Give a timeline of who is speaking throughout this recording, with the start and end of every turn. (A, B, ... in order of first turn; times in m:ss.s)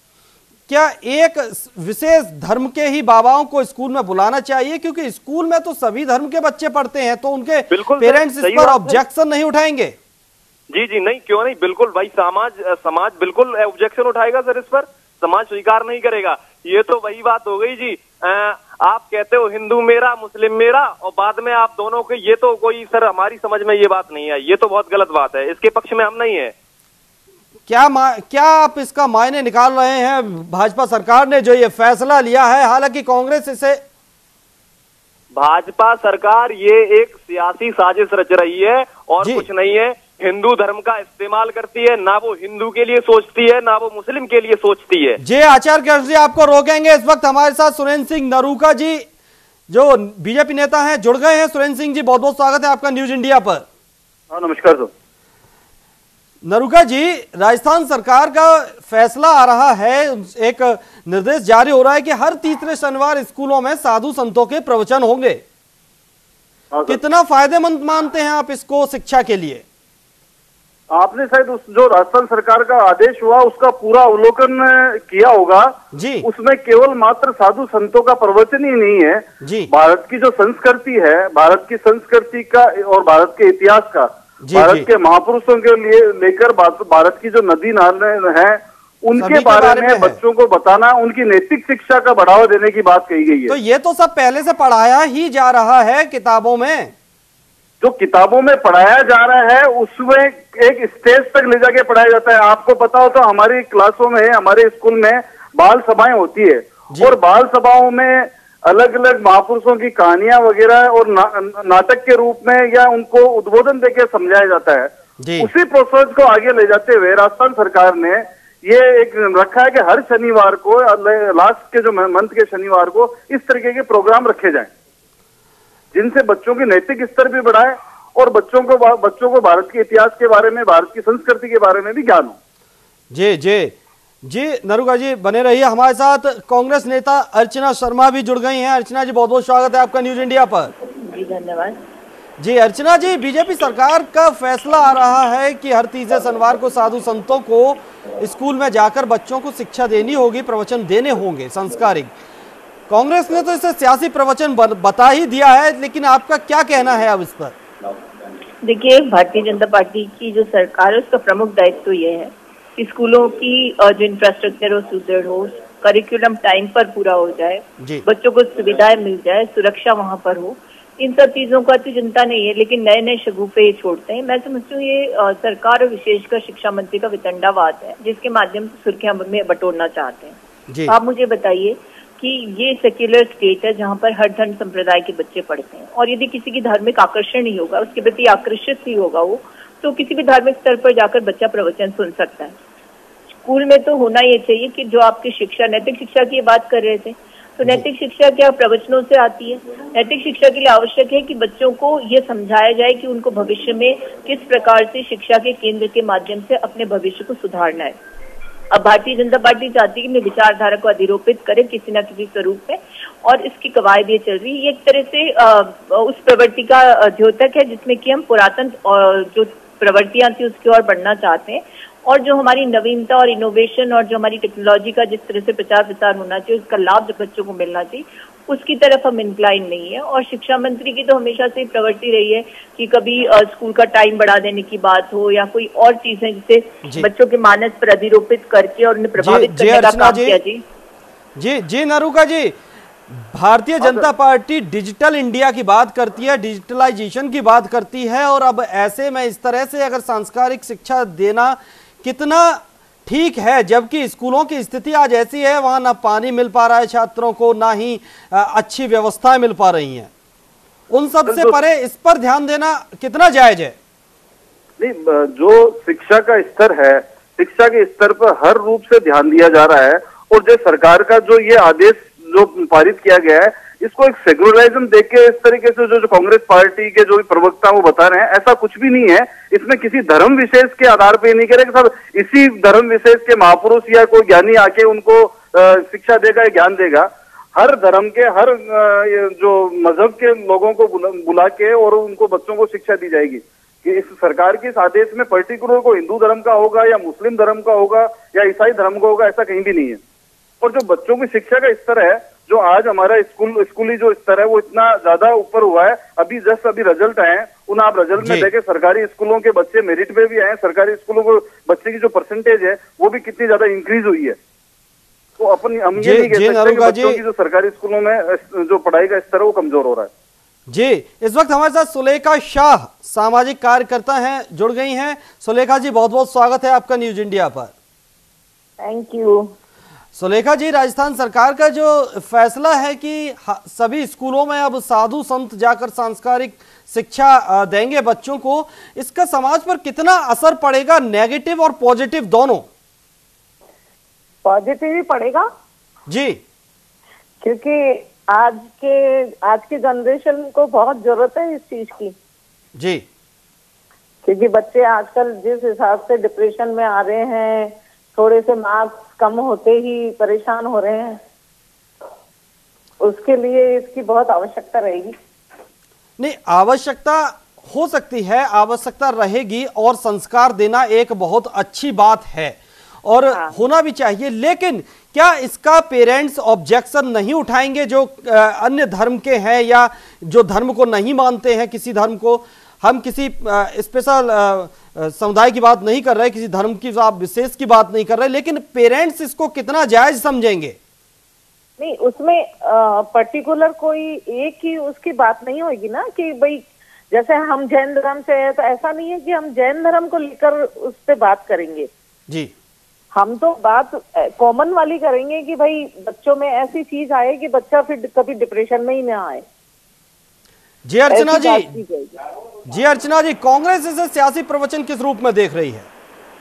0:00.7-0:10.0 A
0:07.7-0:09.0 B
0:10.7-0:26.5 B
0:27.7-0:33.8 A
0:35.4-0:45.2 B
0:45.2-0:49.0 A
0:49.7-0:53.6 A
0:54.3-0:54.9 C
0:56.4-1:05.4 A
1:06.7-1:07.0 C
1:06.9-1:09.6 A
1:10.9-1:33.5 C
1:15.9-1:16.2 A
1:19.4-1:19.7 A
1:24.4-1:24.9 A
1:29.2-1:30.2 A
1:33.5-1:36.9 A
1:37.8-2:04.7 C
1:55.2-1:55.5 A
2:05.9-2:12.4 C
2:13.1-2:20.7 A
2:20.8-2:21.8 D
2:22.4-2:32.1 A
2:32.9-2:37.6 A
2:38.6-3:00.4 D
2:47.8-2:48.0 A
3:00.7-3:00.9 A
3:00.9-3:12.5 D
3:13.4-3:28.0 D
3:28.7-4:00.6 D
3:59.2-4:00.4 A
4:01.4-4:02.6 A
4:03.1-4:20.1 A
4:03.8-4:04.1 C
4:20.9-4:23.7 A
4:21.2-4:21.6 C
4:24.8-5:00.0 C
5:00.6-5:14.4 C
5:08.2-5:08.5 A
5:15.4-5:20.1 C
5:16.0-5:17.2 A
5:20.7-5:27.7 A
5:28.8-5:29.5 E
5:30.2-5:42.7 A
5:44.4-5:45.5 E
5:46.1-5:46.4 A
5:47.4-5:52.1 E
5:52.8-5:53.0 A
5:54.2-6:01.2 E
6:03.0-6:05.1 E
6:06.2-6:30.8 A
6:31.8-6:41.9 E
6:43.1-6:49.4 E
6:50.8-6:51.8 A
6:51.1-6:52.1 E
6:52.7-6:55.9 A